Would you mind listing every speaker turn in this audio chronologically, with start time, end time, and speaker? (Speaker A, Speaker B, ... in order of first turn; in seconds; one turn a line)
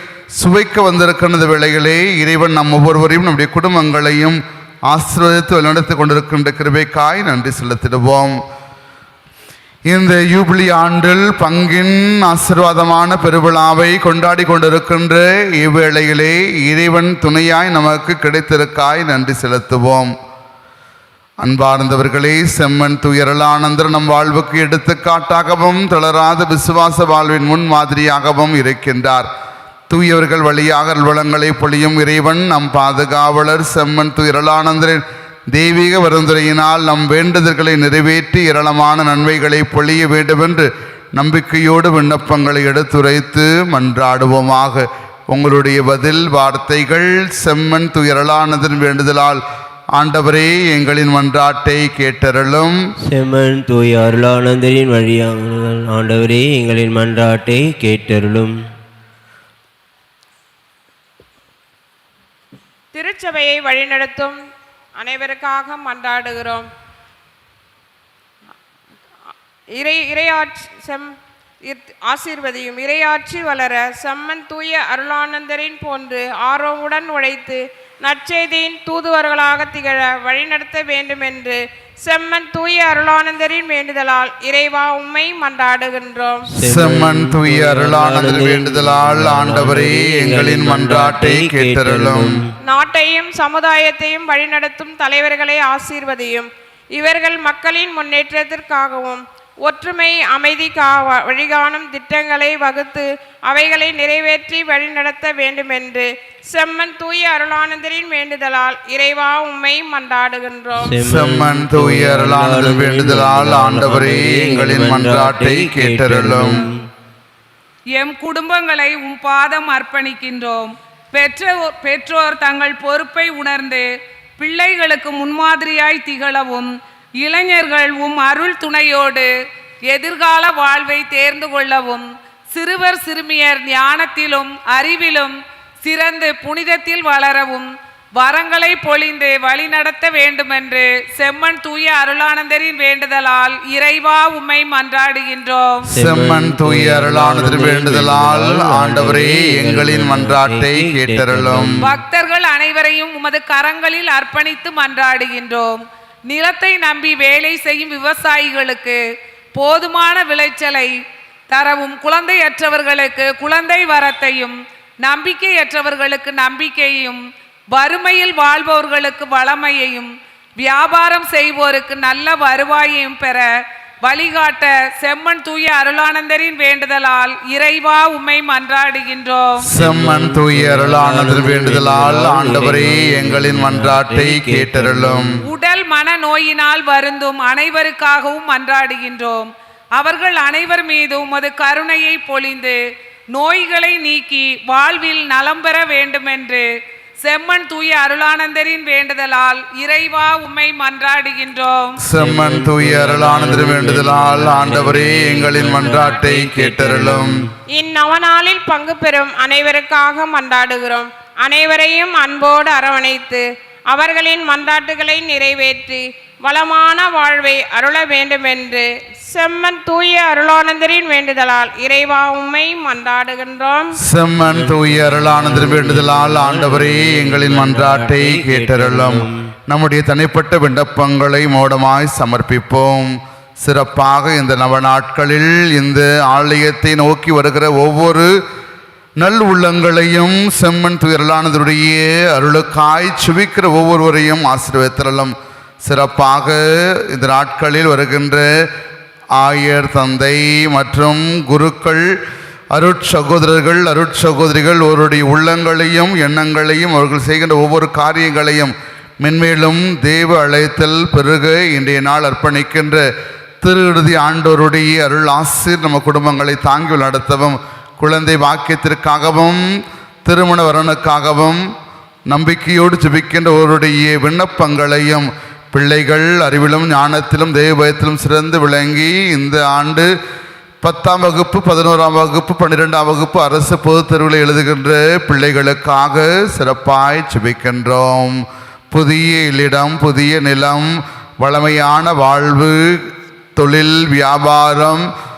Speaker A: 0.3-8.4
Speaker A: 9.9-20.1
Speaker A: 21.4-29.3
Speaker A: 29.9-49.4
Speaker A: 50.0-52.8
Speaker B: 53.1-58.6
Speaker C: 62.9-64.4
Speaker C: 65.0-66.7
Speaker C: 69.7-86.5
Speaker B: 86.5-92.5
Speaker A: 86.6-92.4
Speaker C: 92.6-111.0
Speaker B: 110.8-116.9
Speaker A: 111.0-116.6
Speaker D: 117.9-123.9
Speaker D: 124.4-129.3
Speaker D: 129.9-145.8
Speaker B: 145.9-151.9
Speaker A: 145.9-151.8
Speaker D: 151.8-159.0
Speaker D: 159.6-160.9
Speaker D: 161.5-173.5
Speaker D: 174.0-179.7
Speaker A: 179.6-185.4
Speaker B: 179.8-185.4
Speaker D: 185.4-192.8
Speaker D: 193.3-196.7
Speaker D: 197.2-202.0
Speaker A: 202.0-207.5
Speaker B: 202.2-207.5
Speaker C: 207.7-224.0
Speaker A: 224.0-238.3
Speaker B: 224.4-229.5
Speaker A: 239.2-248.5
Speaker A: 249.4-252.1
Speaker A: 252.8-263.1
Speaker A: 263.6-269.6
Speaker A: 270.2-271.7
Speaker A: 272.3-280.1
Speaker A: 280.8-288.4
Speaker A: 288.9-295.1